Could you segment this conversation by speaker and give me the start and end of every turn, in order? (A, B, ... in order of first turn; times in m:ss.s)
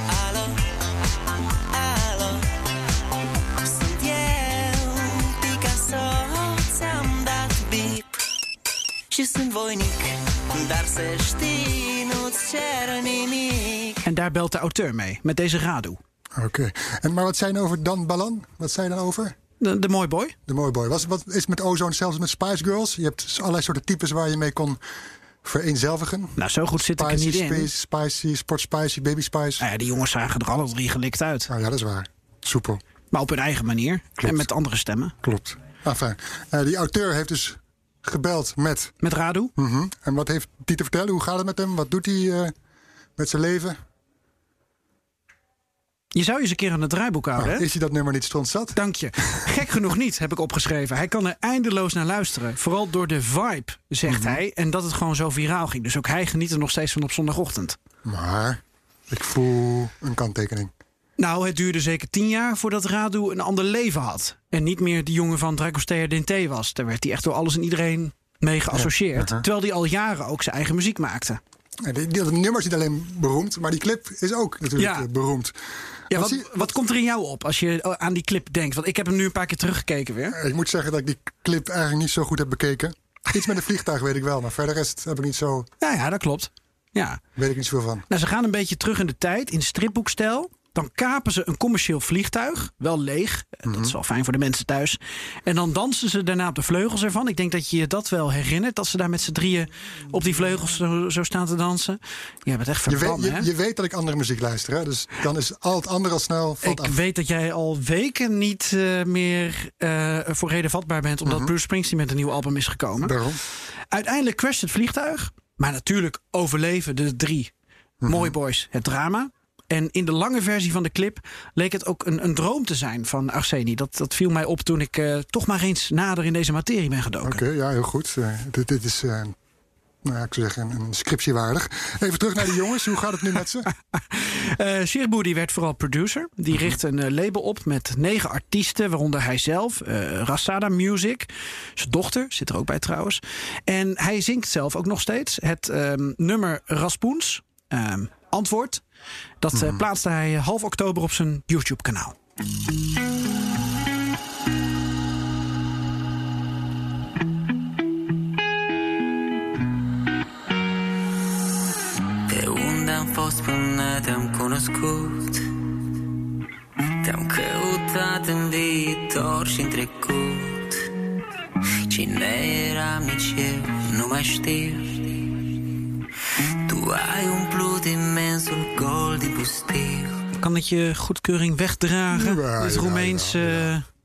0:01.8-0:02.4 A
0:03.7-0:08.0 A
0:09.1-0:13.9 A
0:14.0-0:16.0 B
0:16.4-0:19.4 C
0:19.6-0:20.4 B
0:20.5-0:24.8 C
0:25.4-0:26.4 C
0:26.4-0:27.7 B
0:26.9-0:29.6 C
0:29.6-0:31.5 B
0:31.5-0:32.8 C
0:33.1-0:35.1 B
0:34.2-0:34.5 C
0:35.2-0:38.9 C
0:39.0-0:39.5 B
0:39.6-0:42.6 C
0:43.2-0:43.8 C
0:46.1-0:47.7 B
0:47.4-0:49.6 C
0:48.8-0:57.8 B
0:54.1-0:54.4 C
0:58.0-1:00.7 C
1:01.2-1:11.4 B
1:08.7-1:09.4 C
1:11.8-1:16.7 C
1:14.8-1:15.1 B
1:16.1-1:20.4 B
1:20.3-1:25.7 C
1:25.8-1:27.2 B
1:27.4-1:28.0 C
1:28.1-1:43.5 B
1:33.7-1:34.0 C
1:40.3-1:40.7 C
1:42.9-1:47.0 C
1:46.6-1:57.5 B
1:51.3-1:51.5 C
1:53.0-1:53.4 C
1:58.0-1:58.3 C
1:58.1-2:07.4 B
2:07.2-2:09.4 C
2:10.0-2:13.7 C
2:14.1-2:28.8 B
2:29.4-2:32.2 B
2:29.5-2:29.8 C
2:42.3-2:45.5 A
2:47.0-2:50.8 A
2:51.9-2:55.5 A
2:56.6-3:00.2 A
3:00.4-3:03.9 B
3:02.1-3:03.7 C